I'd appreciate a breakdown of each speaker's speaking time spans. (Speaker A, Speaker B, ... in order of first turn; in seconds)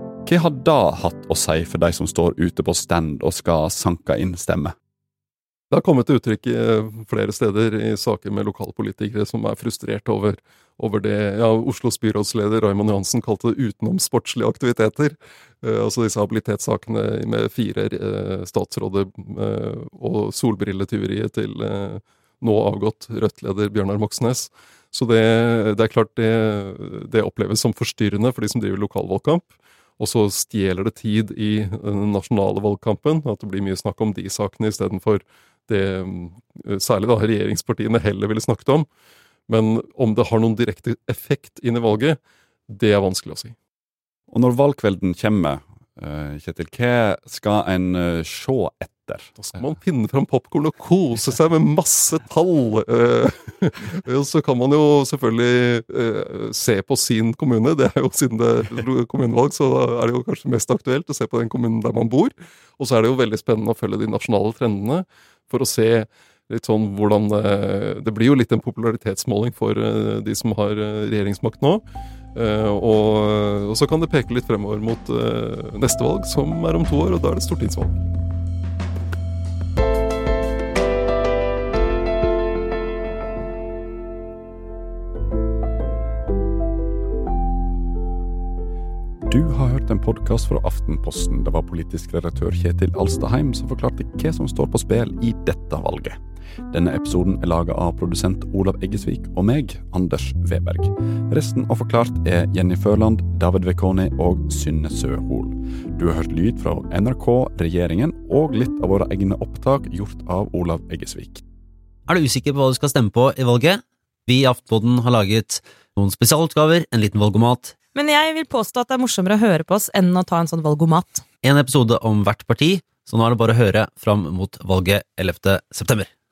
Speaker A: 0.3-4.7, 44.3-49.4, 89.3-96.2, 96.7-111.4
Speaker B: 5.7-38.9, 39.5-43.5, 49.4-71.8, 72.3-78.1
Speaker C: 112.1-117.8, 121.4-126.1
Speaker D: 117.9-121.3